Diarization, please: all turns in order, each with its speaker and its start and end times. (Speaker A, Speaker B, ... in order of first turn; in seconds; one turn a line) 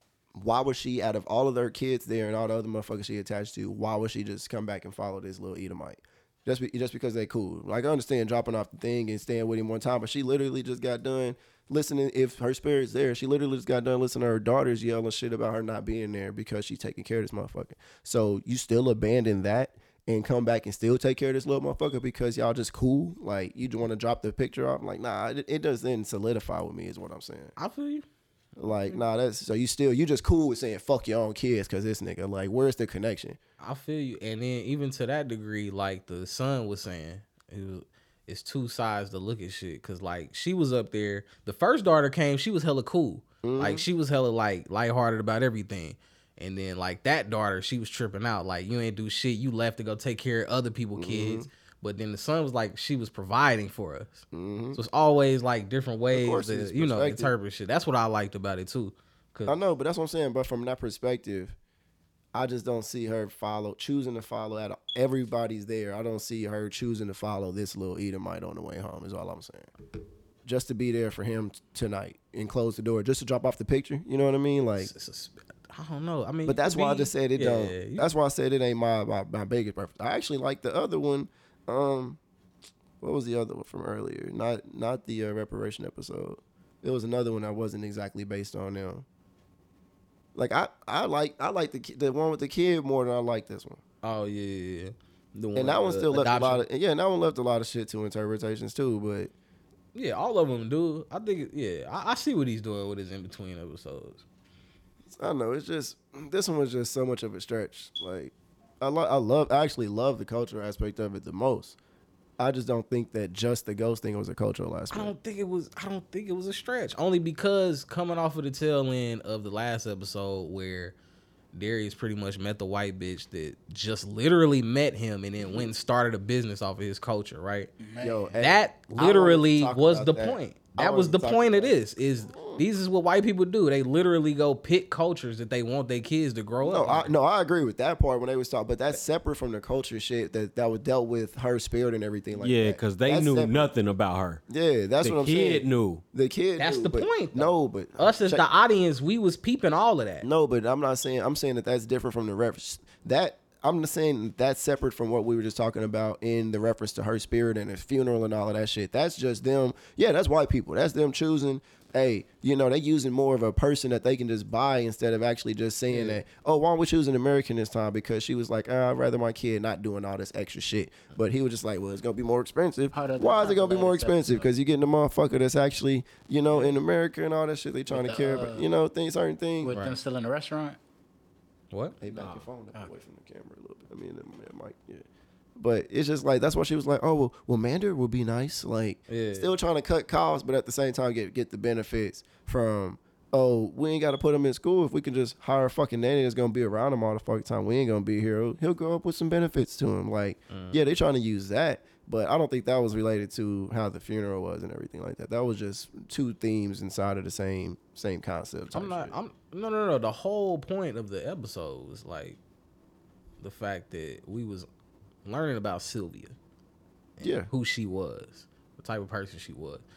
Speaker A: 0.3-27.5
Speaker B: 27.6-28.0
Speaker A: 28.6-33.4
Speaker B: 33.6-59.6
Speaker A: 43.4-43.9
Speaker A: 51.0-51.5
Speaker A: 54.3-54.8
Speaker A: 56.1-57.3
Speaker A: 59.5-61.5
Speaker A: 62.3-69.7
Speaker A: 70.4-74.9
Speaker B: 74.8-78.1
Speaker A: 76.4-82.2
Speaker A: 83.0-89.0
Speaker A: 90.3-93.8
Speaker B: 94.0-96.6
Speaker A: 95.5-99.3
Speaker B: 99.9-104.2
Speaker A: 105.1-111.8
Speaker A: 112.4-115.1
Speaker B: 114.9-120.9
Speaker B: 121.5-127.7
Speaker A: 125.4-125.7
Speaker C: 127.8-128.4
Speaker A: 128.0-132.6
Speaker B: 128.4-137.1
Speaker A: 136.6-143.7
Speaker D: 142.3-144.4
Speaker A: 144.5-148.5
Speaker D: 145.0-146.0
Speaker B: 146.6-150.3
Speaker A: 150.2-179.7
Speaker C: 165.9-166.2
Speaker C: 172.9-174.5
Speaker C: 177.9-178.7
Speaker C: 179.6-180.8
Speaker B: 179.7-179.9
Speaker B: 181.7-182.0
Speaker A: 182.0-185.0
Speaker C: 182.1-182.9
Speaker A: 185.6-209.2
Speaker B: 189.1-189.5
Speaker B: 200.5-200.8
Speaker B: 208.7-212.4
Speaker B: 213.4-214.7
Speaker B: 215.2-216.3
Speaker B: 217.2-219.8
Speaker A: 217.2-217.5